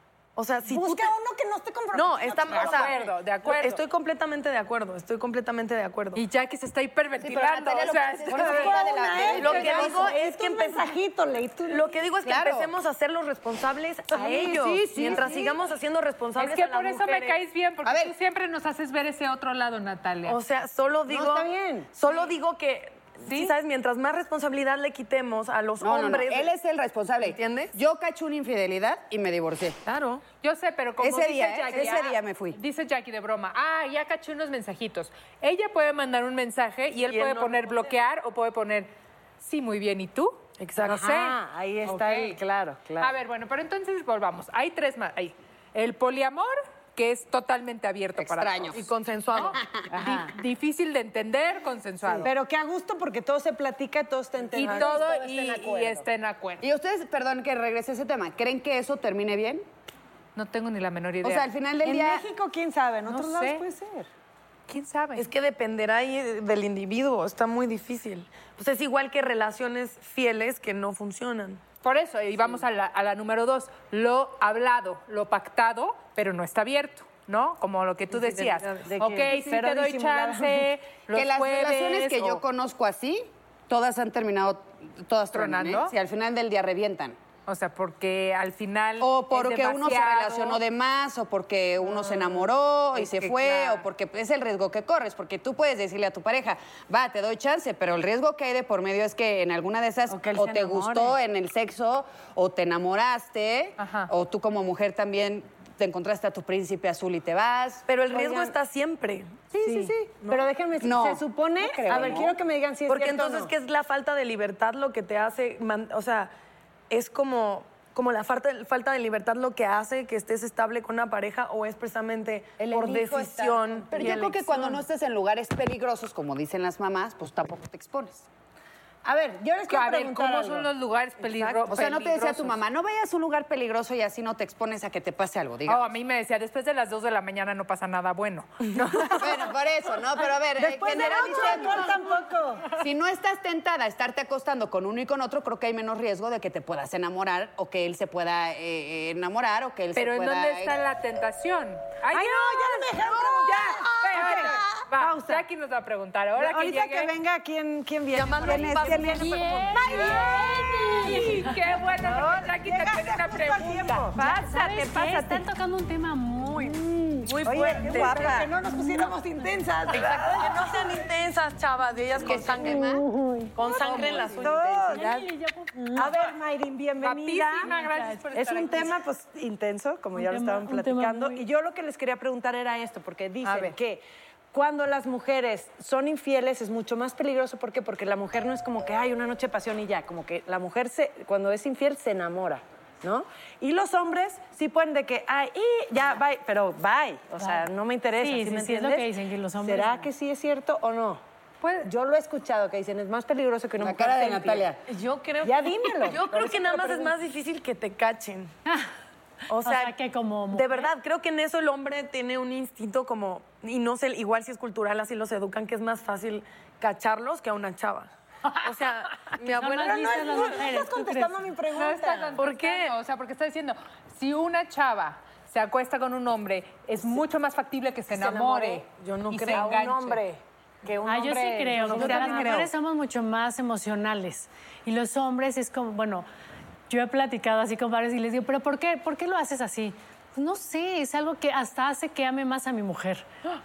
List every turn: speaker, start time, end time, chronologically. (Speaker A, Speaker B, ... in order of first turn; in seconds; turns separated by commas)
Speaker A: 0.4-1.1, Speaker B: 0.7-3.1, Speaker A: 1.9-6.2, Speaker C: 2.5-3.8, Speaker C: 6.2-8.9, Speaker D: 7.2-10.1, Speaker B: 8.3-11.9, Speaker A: 9.3-10.9, Speaker C: 9.4-9.8, Speaker A: 11.7-17.4, Speaker D: 12.2-12.7, Speaker D: 14.1-15.6, Speaker B: 14.2-15.2, Speaker C: 16.4-20.4, Speaker D: 17.8-18.1, Speaker A: 20.3-26.5, Speaker B: 21.1-21.9, Speaker C: 23.3-23.5, Speaker D: 25.8-29.8, Speaker A: 27.2-27.8, Speaker A: 29.9-30.2, Speaker C: 30.4-38.9, Speaker D: 31.0-32.6, Speaker A: 37.1-37.9, Speaker C: 39.4-42.4, Speaker A: 40.6-41.0, Speaker B: 40.9-43.2, Speaker C: 43.0-48.8, Speaker D: 48.2-48.8, Speaker A: 48.7-49.6, Speaker C: 49.4-52.3, Speaker B: 50.0-50.3, Speaker D: 52.0-52.3, Speaker B: 52.2-56.1, Speaker A: 54.5-54.9, Speaker C: 54.6-56.6, Speaker D: 56.6-59.6, Speaker C: 60.4-61.5, Speaker D: 61.2-62.3, Speaker B: 61.8-64.1, Speaker C: 63.1-63.6, Speaker C: 64.7-65.2, Speaker A: 65.2-71.6, Speaker C: 71.8-82.4, Speaker A: 78.1-78.9, Speaker B: 78.9-80.7, Speaker D: 81.1-87.2, Speaker C: 85.3-85.9, Speaker C: 87.5-90.6, Speaker D: 89.0-107.8, Speaker C: 91.9-92.3, Speaker C: 93.0-93.8, Speaker B: 100.1-101.2, Speaker C: 103.8-104.1, Speaker A: 107.9-109.4, Speaker B: 108.1-108.5, Speaker B: 109.5-113.5, Speaker A: 110.2-110.5, Speaker D: 110.8-112.4, Speaker A: 112.9-116.3, Speaker A: 116.9-124.6, Speaker B: 122.6-124.3, Speaker D: 123.9-128.3, Speaker B: 129.1-130.7, Speaker C: 129.7-132.4, Speaker A: 131.2-131.8, Speaker D: 131.7-135.9, Speaker C: 135.7-138.5, Speaker A: 138.8-139.2, Speaker B: 139.0-139.4, Speaker D: 139.1-142.1, Speaker B: 140.6-142.7, Speaker D: 142.7-150.8, Speaker C: 149.9-152.8, Speaker B: 152.1-155.4, Speaker C: 154.1-157.1, Speaker D: 154.2-154.4, Speaker B: 156.4-164.1, Speaker A: 158.1-160.0, Speaker D: 158.4-159.4, Speaker E: 159.4-159.8, Speaker C: 159.8-165.2, Speaker E: 164.2-166.8, Speaker D: 166.6-168.5, Speaker A: 167.2-168.4, Speaker B: 167.4-171.0, Speaker A: 169.9-173.0, Speaker D: 172.2-173.0, Speaker B: 172.3-175.1, Speaker A: 173.6-175.1, Speaker D: 173.8-174.5, Speaker C: 173.9-174.2, Speaker E: 174.9-176.2, Speaker B: 175.9-177.8, Speaker C: 177.0-179.0, Speaker E: 177.6-178.4, Speaker B: 178.3-199.1, Speaker E: 180.2-181.4, Speaker E: 198.2-200.1, Speaker B: 199.6-201.2, Speaker C: 201.6-201.9, Speaker B: 201.8-204.7, Speaker D: 203.8-204.8, Speaker A: 204.9-208.5, Speaker B: 205.4-207.1, Speaker A: 209.5-209.9, Speaker E: 209.6-210.9, Speaker A: 210.5-218.1, Speaker A: 218.6-220.6, Speaker E: 219.5-221.4, Speaker B: 219.8-222.4, Speaker C: 221.7-230.2, Speaker A: 222.4-222.9, Speaker B: 228.1-228.8, Speaker A: 229.0-230.2, Speaker B: 229.5-232.7, Speaker E: 231.1-236.3, Speaker A: 231.8-232.2, Speaker C: 232.0-232.5, Speaker D: 232.2-232.7, Speaker E: 236.9-243.3